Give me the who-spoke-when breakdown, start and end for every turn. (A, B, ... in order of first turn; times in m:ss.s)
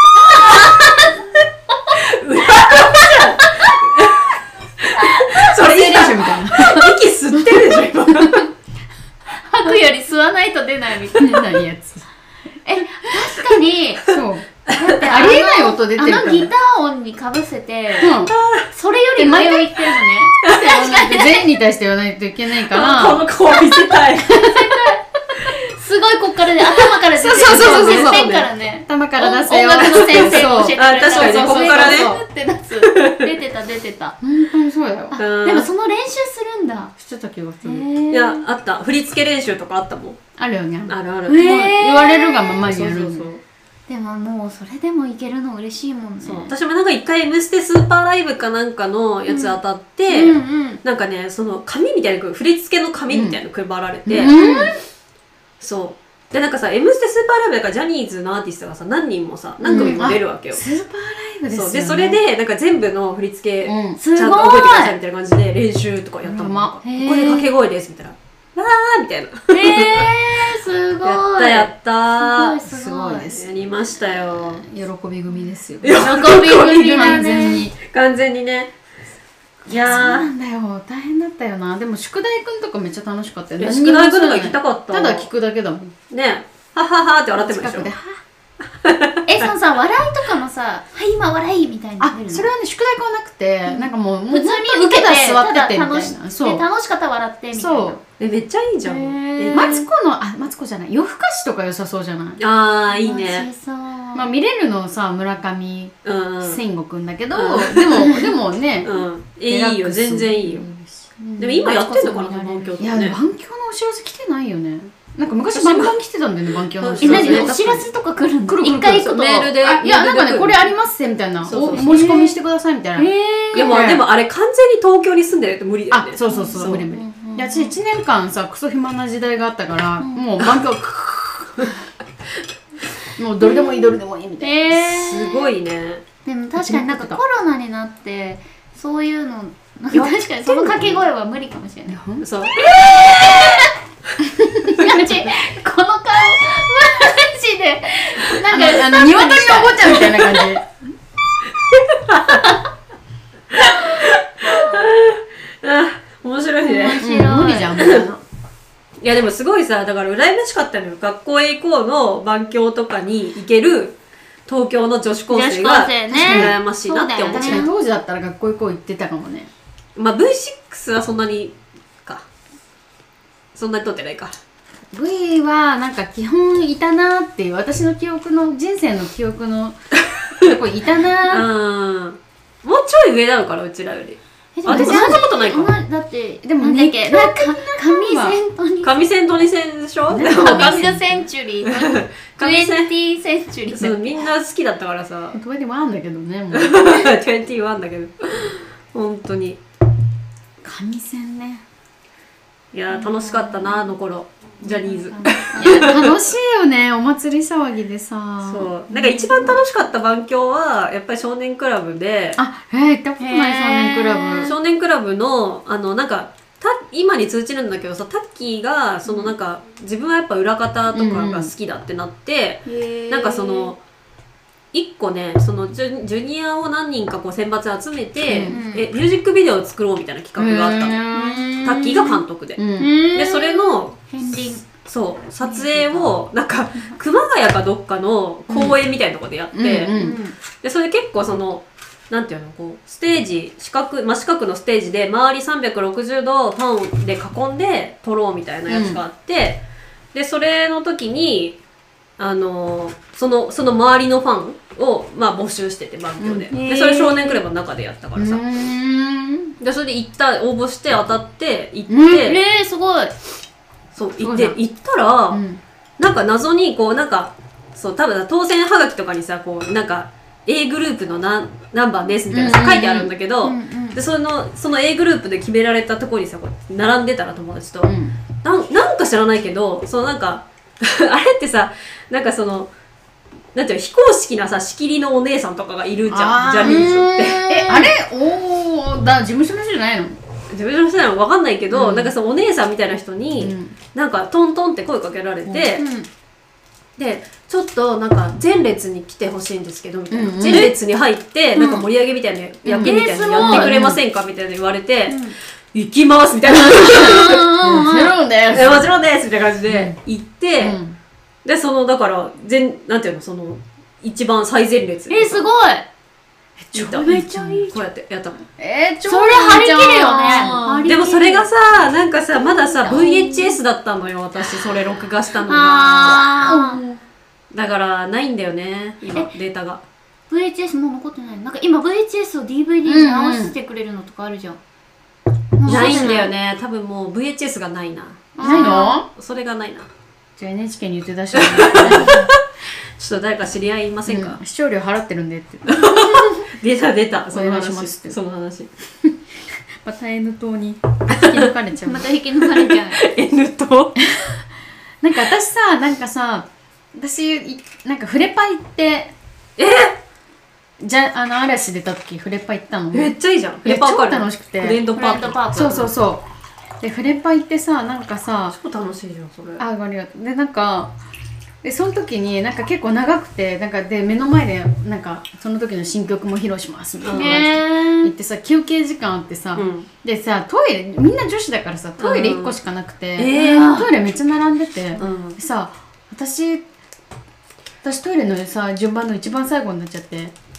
0:00.2-0:02.0 A
0:01.9-0:08.5 B
0:02.5-0:03.8 A
0:05.5-0:07.5 C
0:08.1-0:08.4 C
0:09.4-0:11.6 A
0:11.2-0:12.1 C
0:12.6-0:14.1 A
0:14.1-0:16.5 C
0:14.7-0:18.2 A
0:18.0-0:18.3 C
0:18.2-0:18.7 B
0:18.7-0:21.5 A
0:19.2-0:19.9 C
0:20.4-0:23.3 C
0:20.4-0:20.8 B
0:22.5-0:24.6 B
0:24.2-0:34.2 A
0:26.9-0:28.5 B
0:27.1-0:28.3 C
0:28.9-0:32.2 C
0:29.8-0:32.2 B
0:34.2-0:35.2 C
0:35.1-0:36.9 A
0:35.2-0:35.7 B
0:37.0-0:37.9 C
0:37.6-0:38.5 A
0:38.1-0:40.2 B
0:40.4-0:43.3 C
0:40.9-0:41.4 B
0:41.3-0:42.6 A
0:42.7-0:43.4 B
0:43.9-0:46.6 A
0:46.2-0:54.4 B
0:49.3-0:50.8 A
0:53.1-0:53.4 C
0:54.1-0:54.7 C
0:54.2-0:54.7 A
0:55.6-1:00.6 B
0:59.6-1:02.2 C
0:59.6-1:00.0 A
1:01.5-1:10.1 B
1:03.6-1:04.0 C
1:04.0-1:04.9 A
1:06.2-1:06.9 C
1:06.8-1:07.5 A
1:09.5-1:13.4 A
1:11.0-1:14.6 B
1:12.7-1:13.4 C
1:14.5-1:17.8 C
1:15.8-1:18.7 B
1:15.9-1:17.7 A
1:19.7-1:25.9 C
1:19.7-1:20.3 B
1:19.8-1:20.2 A
1:23.6-1:25.3 B
1:26.1-1:27.9 B
1:27.4-1:28.2 C
1:28.8-1:29.5 B
1:29.3-1:32.5 A
1:32.0-1:36.6 C
1:33.7-1:38.0 A
1:37.5-1:38.0 C
1:38.2-1:39.8 B
1:38.8-1:39.9 A
1:39.5-1:42.4 C
1:42.4-1:43.5 B
1:42.9-1:44.3 A
1:44.1-1:48.9 C
1:46.0-1:46.6 B
1:47.3-1:48.2 B
1:48.8-1:50.7 B
1:49.5-1:51.9 C
1:51.4-1:53.2 B
1:51.6-1:52.8 A
1:52.8-1:57.9 C
1:55.5-1:56.0 B
1:56.8-1:57.5 B
1:57.0-1:59.6 A
1:58.5-2:03.1 C
1:59.1-2:00.7 B
2:01.4-2:02.0 B
2:01.5-2:02.4 A
2:03.0-2:03.9 A
2:03.5-2:06.8 B
2:03.7-2:04.1 C
2:05.9-2:11.7 C
2:06.3-2:07.8 A
2:13.2-2:14.6 C
2:13.4-2:15.5 A
2:14.7-2:16.0 B
2:16.2-2:22.0 A
2:16.6-2:17.2 C
2:19.9-2:21.0 B
2:21.9-2:22.3 C
2:22.2-2:23.4 B
2:22.6-2:23.7 A
2:24.2-2:25.1 C
2:24.7-2:30.4 A
2:28.4-2:30.6 C
2:30.1-2:30.4 B
2:31.7-2:32.6 B
2:33.5-2:37.0 B
2:36.6-2:37.7 A
2:37.0-2:38.2 C
2:37.8-2:38.1 B
2:39.0-2:47.7 B
2:45.3-2:47.7 A
2:46.1-2:46.6 C
2:47.3-2:49.5 C
2:50.0-2:52.2 B
2:53.6-2:54.4 B
2:54.9-2:59.8 C
3:00.4-3:01.5 C
3:01.3-3:05.8 B
3:04.6-3:09.0 A
3:04.6-3:05.3 C
3:06.4-3:08.4 C
3:08.8-3:10.9 B
3:10.1-3:11.2 C
3:10.3-3:14.3 A
3:11.7-3:12.9 B
3:13.7-3:15.4 B
3:15.3-3:16.8 C
3:16.5-3:19.6 B
3:20.6-3:21.6 C
3:22.7-3:26.2 B
3:24.7-3:29.6 C
3:28.4-3:32.4 B
3:32.4-3:34.5 C
3:33.2-3:34.5 A
3:34.4-3:43.8 B
3:40.9-3:41.5 C
3:42.7-3:43.7 C
3:44.7-3:51.1 B
3:48.3-3:48.6 C
3:48.4-3:48.9 A
3:50.4-3:51.5 C
3:51.1-3:52.2 A
3:51.6-3:54.0 B
3:52.6-3:52.9 C
3:52.8-3:54.6 A
3:54.7-3:59.9 B
3:55.4-3:56.1 A
3:58.5-3:58.8 C
3:59.5-4:00.2 C
3:59.9-4:00.4 A
4:00.6-4:09.6 B
4:08.7-4:09.0 C
4:10.1-4:11.6 B
4:12.2-4:18.4 B
4:16.2-4:17.4 C
4:18.2-4:19.6 C
4:19.6-4:22.4 B
4:21.9-4:22.2 C
4:22.1-4:23.1 A
4:23.9-4:25.4 B
4:24.2-4:24.6 C
4:25.3-4:25.6 C
4:26.0-4:42.7 B
4:32.3-4:33.1 C
4:33.4-4:34.0 A
4:37.8-4:38.2 C
4:43.6-4:47.9 B
4:46.1-4:50.2 C
4:46.6-4:47.5 A
4:50.5-4:55.8 B
4:51.7-4:52.1 C
4:53.4-4:53.8 C
4:55.8-4:56.1 A
4:57.0-5:07.5 B
5:00.1-5:00.7 C
5:01.6-5:01.9 A
5:02.7-5:04.0 C
5:02.7-5:03.7 A
5:05.1-5:05.4 A
5:06.7-5:08.2 A
5:07.6-5:08.9 C
5:08.5-5:10.8 B
5:09.7-5:10.0 C
5:10.6-5:11.0 C
5:11.4-5:15.5 B
5:15.1-5:15.9 A
5:16.6-5:17.7 C
5:16.7-5:18.4 B
5:18.6-5:21.2 C
5:19.0-5:21.5 A
5:20.3-5:26.4 B
5:22.7-5:23.4 C
5:22.8-5:23.4 A
5:25.4-5:26.8 A
5:26.2-5:27.0 C
5:27.5-5:29.8 B
5:30.3-5:34.6 A
5:32.8-5:33.6 C
5:35.6-5:36.3 A
5:35.6-5:39.9 B
5:35.7-5:36.2 C
5:38.4-5:39.0 A
5:38.4-5:39.1 C
5:40.4-5:42.3 C
5:41.3-5:42.3 B
5:43.0-5:44.4 B
5:44.1-5:45.9 C
5:45.7-5:48.7 B
5:47.3-5:48.2 C
5:49.8-5:52.1 C
5:51.1-5:51.5 B
5:51.8-5:53.0 A
5:52.4-5:54.0 B
5:55.0-5:59.1 C
5:59.6-6:00.0 B
6:00.8-6:03.1 C
6:02.9-6:05.8 B
6:03.6-6:04.9 C
6:04.9-6:05.9 A
6:05.5-6:06.2 C
6:06.8-6:08.6 C
6:08.5-6:09.6 B
6:09.6-6:11.0 C
6:11.6-6:26.6 C
6:17.0-6:17.4 B
6:17.1-6:18.1 A
6:19.5-6:19.9 B
6:22.0-6:22.6 B
6:23.2-6:23.7 B
6:23.3-6:23.9 A
6:25.0-6:25.4 B
6:27.8-6:30.3 C